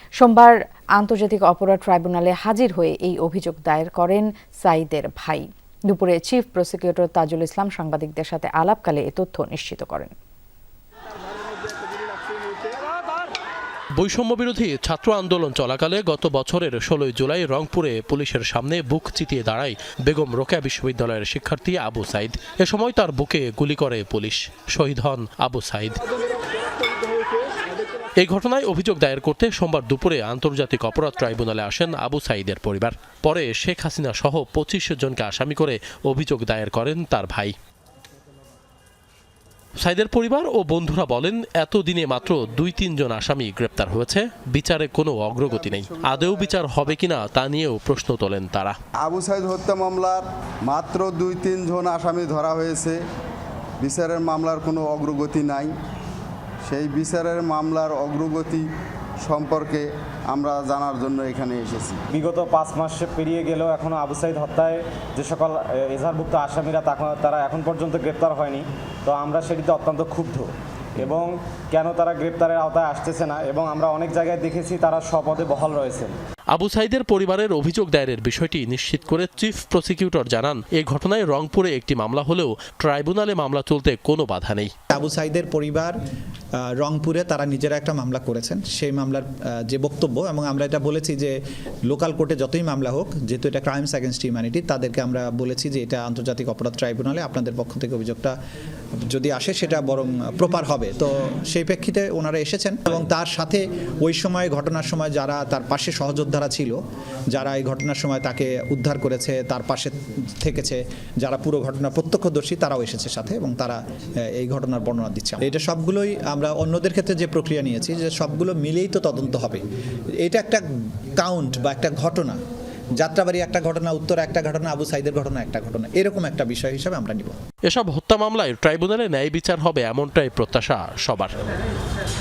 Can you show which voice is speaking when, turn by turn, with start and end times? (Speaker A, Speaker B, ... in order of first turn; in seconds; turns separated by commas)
Speaker A: 0.2-10.1, Speaker B: 14.0-26.0, Speaker B: 28.2-37.5, Speaker B: 39.8-48.8, Speaker C: 45.5-46.5, Speaker C: 49.0-53.0, Speaker C: 53.8-55.8, Speaker C: 56.6-58.7, Speaker C: 59.2-62.0, Speaker D: 62.1-76.1, Speaker B: 76.5-84.7, Speaker E: 84.9-85.9, Speaker E: 86.6-91.3, Speaker E: 91.9-98.3, Speaker E: 99.1-106.8, Speaker E: 107.3-119.6, Speaker E: 120.2-122.4, Speaker E: 123.0-127.3, Speaker B: 127.7-131.3